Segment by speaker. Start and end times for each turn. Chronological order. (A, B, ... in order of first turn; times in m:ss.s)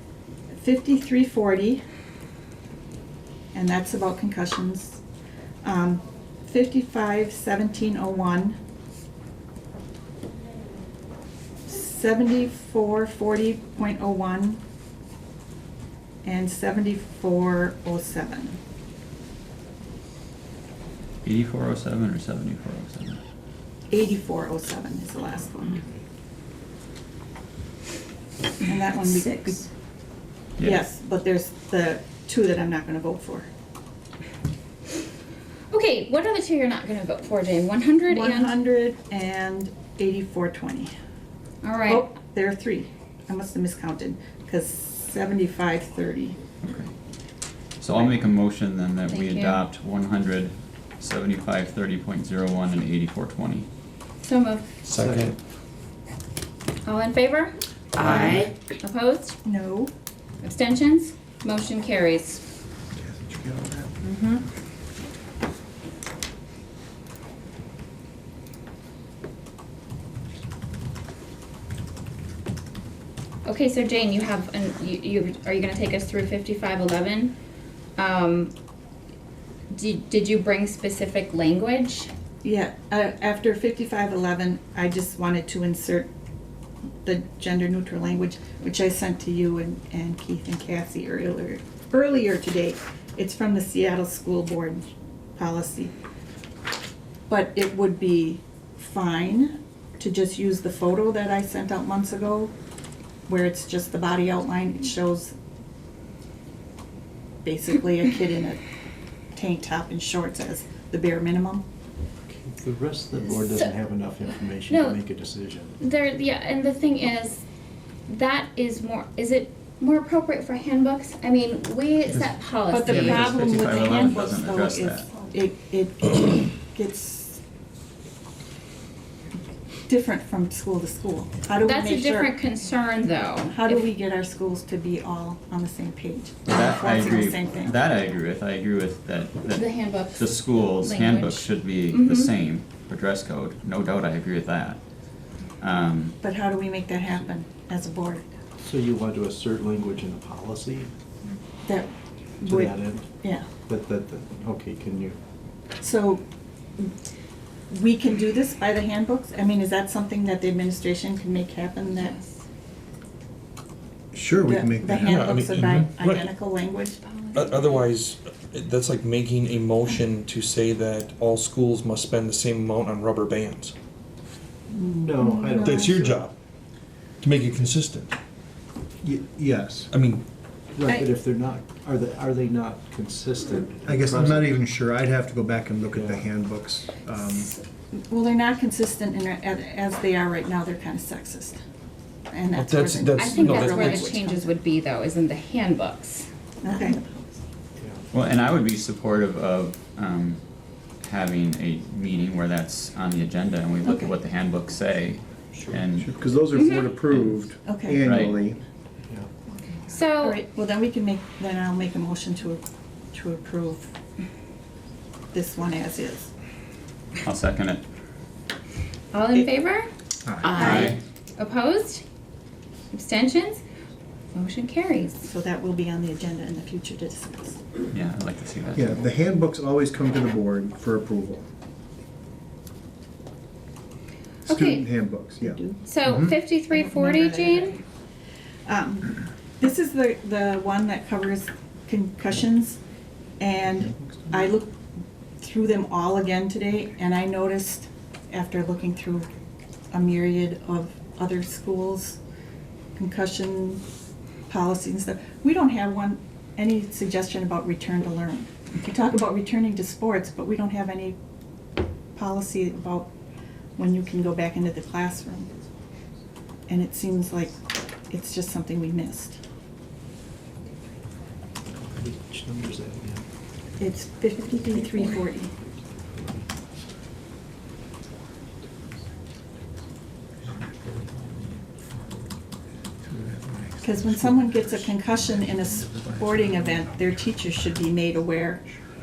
0:00.5-0:01.8 A
0:03.5-0:05.0 A
0:05.6-0:08.6 A
0:11.6-0:14.6 A
0:16.2-0:18.6 A
0:21.2-0:23.2 B
0:23.9-0:25.8 A
0:25.6-0:26.0 C
0:28.6-0:29.6 A
0:30.6-0:33.5 A
0:35.7-0:38.6 D
0:38.1-0:40.9 A
0:41.6-0:42.1 D
0:41.8-0:46.4 A
0:46.6-0:46.9 B
0:47.8-0:53.7 B
0:49.1-0:49.6 D
0:54.2-0:54.7 D
0:54.8-0:55.4 E
0:54.9-0:55.3 C
0:56.8-0:57.5 D
0:58.0-0:58.5 E
0:58.8-0:59.4 D
0:59.4-0:59.9 A
1:00.4-1:02.4 D
1:02.9-1:03.9 F
1:04.1-1:04.4 D
1:13.4-1:17.3 D
1:18.0-1:18.5 D
1:19.7-1:22.1 D
1:22.4-1:26.1 A
1:27.0-1:35.9 A
1:37.3-1:42.5 A
1:43.3-1:45.4 A
1:47.4-1:48.6 A
1:49.3-1:51.6 A
1:52.3-1:55.8 C
1:54.7-1:55.0 D
1:55.8-1:57.4 D
1:58.1-2:03.4 D
2:02.7-2:07.4 A
2:02.9-2:05.1 B
2:09.9-2:12.3 A
2:11.6-2:13.9 D
2:13.5-2:17.8 A
2:16.4-2:24.8 B
2:19.6-2:22.3 D
2:25.6-2:26.2 B
2:26.2-2:28.2 A
2:28.6-2:30.9 C
2:31.6-2:33.5 A
2:32.4-2:33.1 C
2:33.6-2:35.2 C
2:35.8-2:36.2 A
2:37.7-2:42.2 A
2:44.1-2:45.8 F
2:44.4-2:47.0 A
2:44.9-2:46.3 E
2:47.0-2:47.4 D
2:47.3-2:53.7 E
2:54.7-2:56.0 A
2:55.0-2:56.2 C
2:55.6-2:56.3 E
2:57.2-2:58.1 E
2:59.0-2:59.9 F
2:59.9-3:00.2 E
3:00.7-3:04.6 C
3:03.8-3:07.5 F
3:05.9-3:06.3 C
3:07.4-3:11.6 A
3:12.3-3:14.5 A
3:12.5-3:14.1 E
3:13.2-3:16.3 D
3:16.6-3:17.0 A
3:16.8-3:17.1 D
3:17.8-3:18.1 C
3:18.1-3:20.4 B
3:21.0-3:26.1 B
3:23.8-3:24.1 A
3:26.0-3:28.6 F
3:26.5-3:26.9 D
3:27.0-3:27.4 B
3:27.6-3:28.0 A
3:28.0-3:28.4 B
3:29.9-3:30.4 D
3:30.1-3:33.9 A
3:35.3-3:36.3 A
3:37.2-3:37.8 B
3:39.1-3:39.9 D
3:40.2-3:40.6 F
3:40.6-3:40.9 A
3:40.6-3:41.0 B
3:41.4-3:42.0 D
3:42.9-3:43.6 D
3:44.3-3:45.2 D
3:45.2-3:47.6 A
3:47.9-3:49.0 B
3:48.7-3:51.5 F
3:54.4-3:56.3 F
3:54.5-3:54.8 D
3:55.4-3:55.8 A
3:55.8-3:57.8 D
3:56.7-3:57.8 A
3:58.7-4:02.8 A
4:03.4-4:04.8 A
4:05.4-4:09.3 A
4:09.9-4:12.2 A
4:13.0-4:13.8 A
4:14.5-4:21.2 A
4:22.1-4:23.1 A
4:23.8-4:25.5 A
4:26.7-4:29.4 A
4:31.8-4:33.2 C
4:33.8-4:35.5 A
4:36.0-4:36.5 C
4:40.6-4:41.5 C
4:43.1-4:44.2 C
4:43.8-4:48.6 A